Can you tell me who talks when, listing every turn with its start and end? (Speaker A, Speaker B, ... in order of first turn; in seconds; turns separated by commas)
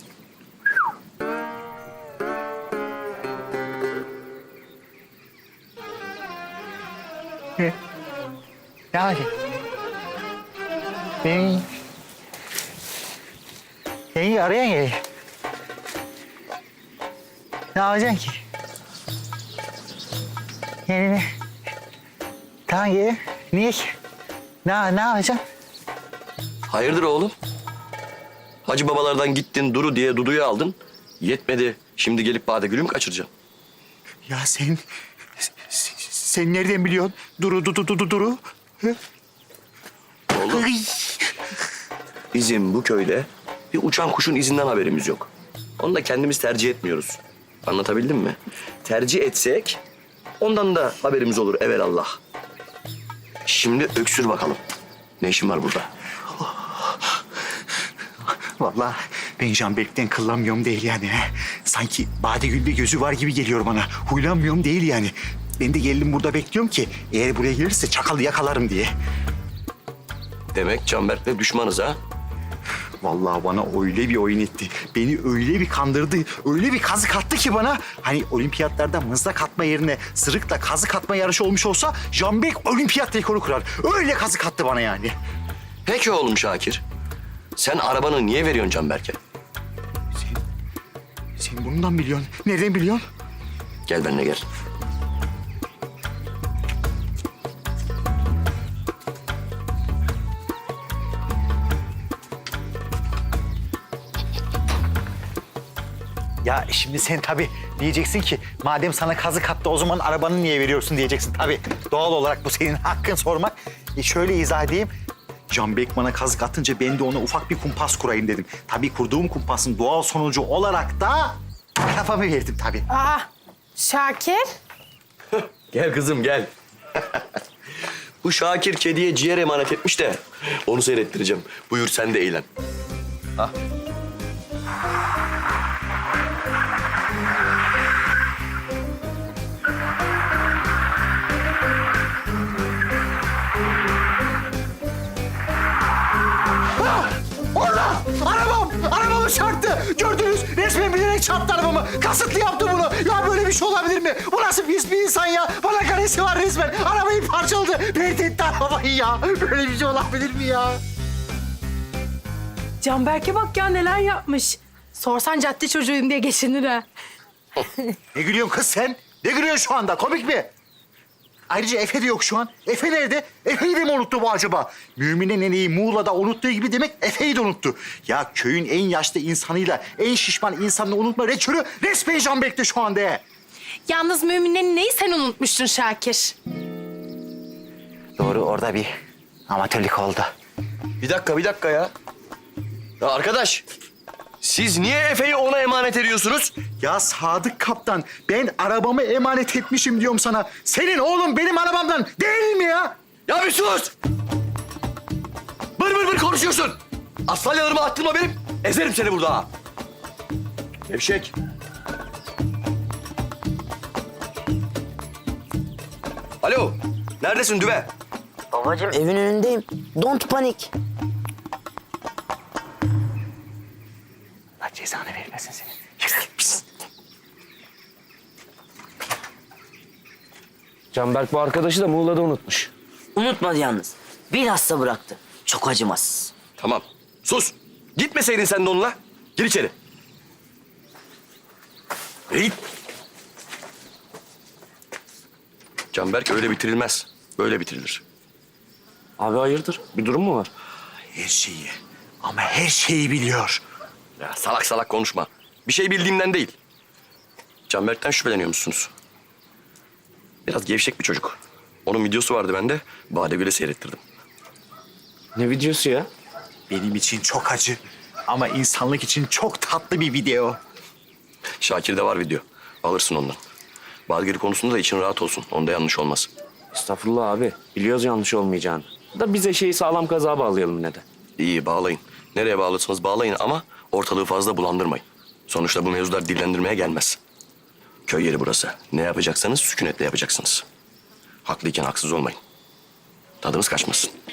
Speaker A: 8.9-9.3, Speaker A: 11.2-11.7, Speaker A: 14.1-15.0, Speaker A: 17.7-18.4, Speaker A: 20.9-21.3, Speaker A: 22.7-23.9, Speaker A: 24.6-25.4, Speaker B: 26.7-27.3, Speaker B: 28.6-33.3, Speaker A: 34.3-34.8, Speaker A: 35.7-39.0, Speaker B: 40.3-40.7, Speaker A: 40.4-41.3, Speaker B: 42.3-49.8, Speaker B: 50.4-52.2, Speaker B: 53.4-54.6, Speaker B: 55.2-55.9, Speaker A: 58.6-68.9, Speaker B: 70.5-72.0, Speaker A: 73.0-85.1, Speaker B: 85.8-86.8, Speaker B: 87.5-89.2, Speaker A: 90.2-90.4, Speaker A: 91.4-93.0, Speaker B: 93.9-94.4, Speaker A: 106.4-114.9, Speaker A: 115.5-122.8, Speaker C: 122.9-124.5, Speaker B: 125.3-127.2, Speaker B: 128.2-132.5, Speaker A: 146.8-160.8, Speaker C: 162.8-166.9, Speaker A: 168.1-170.5, Speaker A: 171.5-183.2, Speaker C: 183.9-186.4, Speaker A: 188.2-188.9, Speaker A: 189.5-190.3, Speaker B: 191.0-191.9, Speaker B: 193.0-193.6, Speaker B: 194.4-196.6, Speaker A: 196.8-202.9, Speaker B: 203.3-203.9, Speaker B: 205.8-209.5, Speaker B: 210.9-211.3, Speaker B: 216.4-217.9, Speaker D: 218.5-220.7, Speaker A: 224.6-226.6, Speaker E: 230.9-232.7, Speaker D: 233.2-236.3, Speaker B: 236.6-239.7, Speaker B: 242.3-242.6, Speaker B: 245.9-248.0, Speaker E: 249.2-250.5, Speaker A: 251.1-253.6, Speaker B: 254.2-256.6, Speaker B: 257.7-258.9, Speaker B: 260.4-264.0, Speaker E: 265.4-266.1, Speaker A: 266.7-270.6, Speaker B: 271.6-273.4, Speaker B: 274.1-276.3, Speaker E: 276.7-281.0, Speaker B: 281.4-287.2, Speaker B: 288.1-290.6, Speaker B: 291.4-292.4, Speaker B: 293.4-294.1